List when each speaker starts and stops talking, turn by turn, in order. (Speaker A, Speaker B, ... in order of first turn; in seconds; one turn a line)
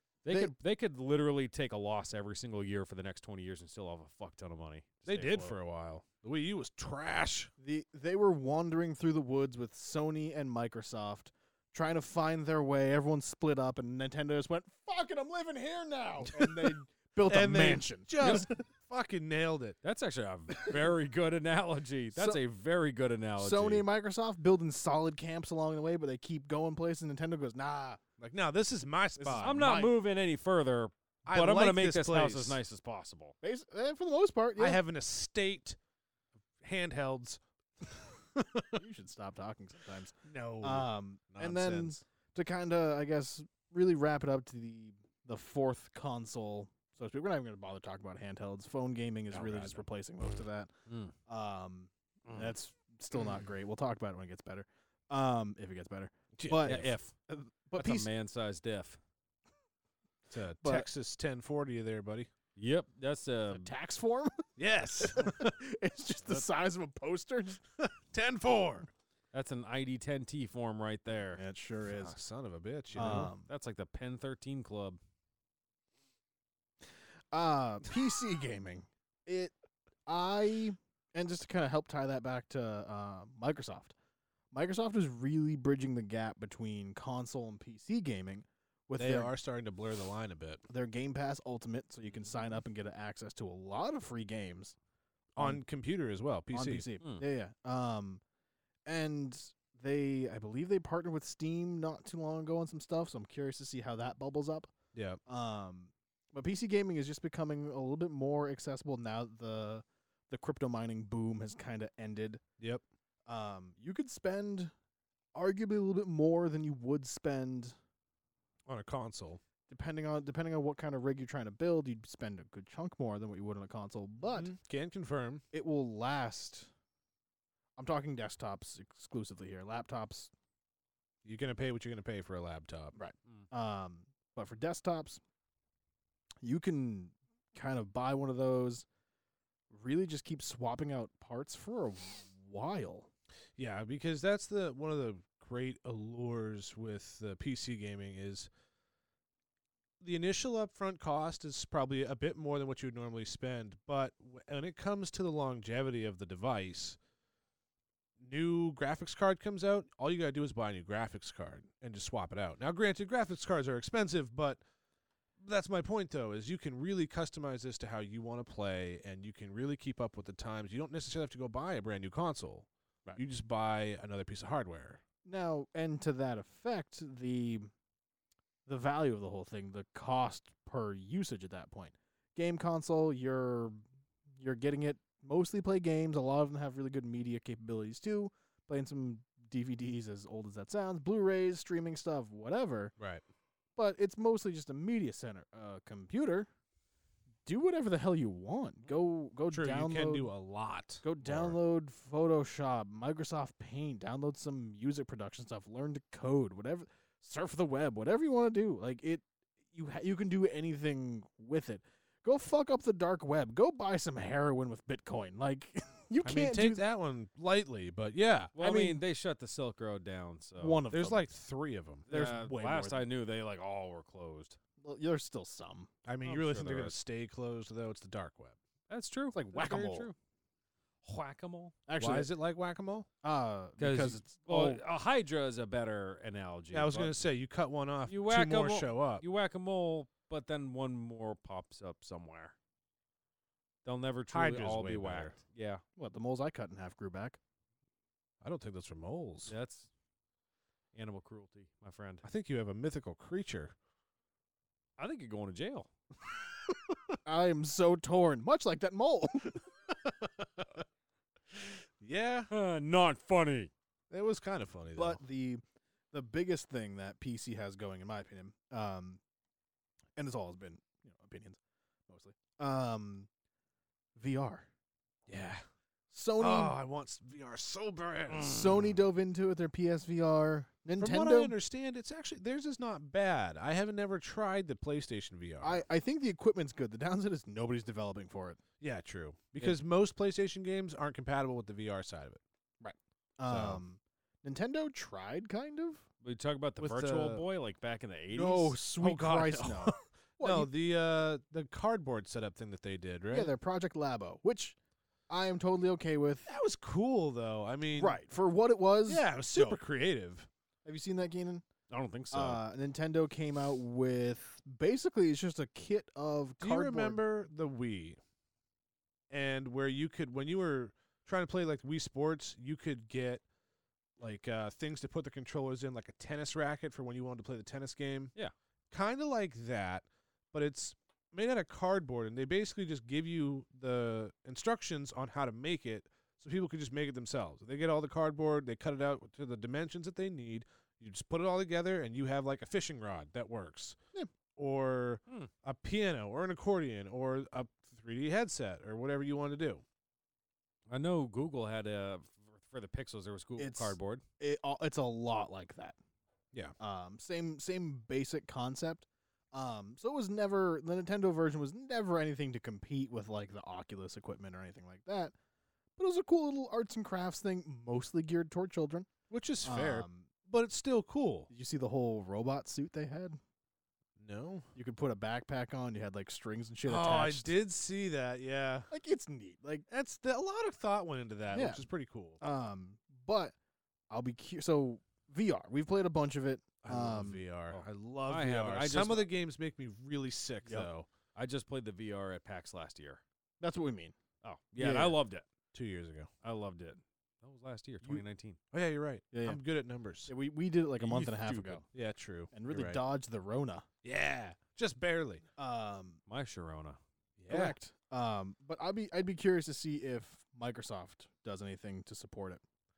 Speaker A: 0.2-5.5
Speaker B: 0.3-0.5
Speaker C: 5.0-7.5
Speaker B: 7.6-18.5
Speaker C: 16.3-16.7
Speaker C: 17.2-19.8
Speaker A: 19.8-23.8
Speaker B: 22.1-22.4
Speaker B: 23.4-28.0
Speaker C: 28.2-29.6
Speaker B: 29.2-29.9
Speaker A: 29.4-33.3
Speaker C: 31.2-32.6
Speaker B: 33.4-34.8
Speaker C: 34.6-35.8
Speaker C: 36.6-38.8
Speaker B: 38.8-50.7
Speaker C: 40.2-42.0
Speaker C: 49.3-49.8
Speaker A: 50.9-51.1
Speaker B: 51.3-58.1
Speaker A: 52.3-52.5
Speaker C: 56.4-56.9
Speaker A: 56.6-57.1
Speaker A: 57.8-59.0
Speaker C: 60.3-62.3
Speaker B: 60.6-60.9
Speaker A: 62.6-63.7
Speaker B: 63.5-64.4
Speaker C: 64.6-65.5
Speaker B: 65.0-67.6
Speaker C: 67.8-68.9
Speaker A: 69.3-71.4
Speaker B: 71.3-72.1
Speaker C: 71.8-73.3
Speaker B: 72.9-73.5
Speaker A: 73.0-75.0
Speaker B: 77.3-79.5
Speaker B: 80.0-83.9
Speaker B: 84.5-89.3
Speaker C: 89.0-90.6
Speaker B: 90.7-94.8
Speaker C: 95.3-96.9
Speaker B: 95.4-95.6
Speaker B: 96.5-98.2
Speaker B: 98.8-104.7
Speaker C: 104.9-105.2
Speaker B: 105.3-112.4
Speaker C: 112.6-112.8
Speaker B: 113.2-114.7
Speaker B: 115.3-117.8
Speaker C: 118.7-119.4
Speaker B: 119.7-124.5
Speaker C: 124.3-125.4
Speaker B: 125.5-126.7
Speaker B: 127.8-130.3
Speaker C: 131.2-133.0
Speaker B: 132.9-135.2
Speaker B: 136.4-138.8
Speaker B: 139.7-143.1
Speaker C: 143.6-148.5
Speaker C: 150.0-157.0
Speaker C: 158.2-164.6
Speaker C: 165.4-175.0
Speaker B: 175.2-177.7
Speaker B: 178.7-183.8
Speaker B: 184.4-192.9
Speaker C: 193.0-193.2
Speaker B: 193.8-196.5
Speaker B: 197.4-200.3
Speaker C: 199.5-201.6
Speaker B: 201.0-216.8
Speaker C: 216.2-218.5
Speaker A: 218.6-220.8
Speaker B: 218.6-219.0
Speaker B: 220.6-221.3
Speaker C: 220.9-222.1
Speaker B: 222.1-223.0
Speaker A: 222.1-224.6
Speaker B: 224.8-225.9
Speaker C: 226.0-228.6
Speaker A: 226.2-226.9
Speaker A: 228.9-230.1
Speaker B: 229.3-230.1
Speaker A: 231.0-231.8
Speaker B: 231.9-232.3
Speaker C: 232.0-233.1
Speaker B: 233.2-234.8
Speaker A: 233.8-237.2
Speaker C: 236.7-239.2
Speaker A: 238.1-242.5
Speaker A: 243.8-245.8
Speaker C: 244.3-245.4
Speaker B: 246.0-247.4
Speaker C: 248.4-249.5
Speaker A: 249.5-249.9
Speaker A: 250.9-252.2
Speaker C: 252.2-253.7
Speaker A: 255.0-255.9
Speaker B: 257.2-259.6
Speaker C: 259.9-260.8
Speaker C: 261.5-262.5
Speaker A: 262.5-263.7
Speaker C: 264.1-265.2
Speaker B: 264.9-269.2
Speaker B: 270.1-273.3
Speaker B: 274.1-274.7
Speaker C: 275.3-275.6
Speaker B: 276.1-276.7
Speaker C: 276.4-278.7
Speaker B: 278.3-281.5
Speaker C: 281.0-285.8
Speaker B: 285.6-288.6
Speaker C: 288.8-292.4
Speaker B: 292.8-296.1
Speaker C: 293.5-293.8
Speaker A: 296.2-298.7
Speaker C: 296.8-297.4
Speaker B: 298.3-300.7
Speaker C: 298.9-303.5
Speaker B: 303.3-304.8
Speaker B: 305.3-306.5
Speaker C: 306.4-308.2
Speaker B: 308.0-309.8
Speaker C: 309.1-310.5
Speaker B: 310.8-311.6
Speaker A: 311.9-312.6
Speaker B: 312.3-317.2
Speaker C: 316.6-318.2
Speaker C: 319.3-323.4
Speaker C: 324.2-328.3
Speaker C: 328.9-344.0
Speaker C: 344.6-349.8
Speaker A: 350.9-354.2
Speaker B: 353.6-355.9
Speaker B: 356.8-365.3
Speaker B: 366.0-369.1
Speaker C: 369.3-371.5
Speaker B: 369.6-370.3
Speaker B: 371.5-373.4
Speaker C: 374.2-374.7
Speaker B: 374.7-377.5
Speaker C: 376.9-378.9
Speaker B: 378.9-379.9
Speaker C: 379.9-382.4
Speaker B: 381.5-381.9
Speaker B: 382.4-383.5
Speaker B: 384.1-387.4
Speaker C: 386.8-391.1
Speaker A: 387.7-389.3
Speaker A: 391.3-393.2
Speaker B: 393.6-394.2
Speaker A: 394.4-395.4
Speaker B: 394.8-395.2
Speaker C: 395.7-396.3
Speaker A: 396.4-398.6
Speaker C: 398.7-400.3
Speaker B: 399.3-399.6
Speaker B: 400.3-401.8
Speaker A: 401.0-401.8
Speaker C: 401.9-403.0
Speaker B: 402.5-403.9
Speaker C: 404.0-405.4
Speaker B: 405.6-406.2
Speaker A: 406.3-407.0
Speaker C: 407.4-407.8
Speaker B: 407.5-412.6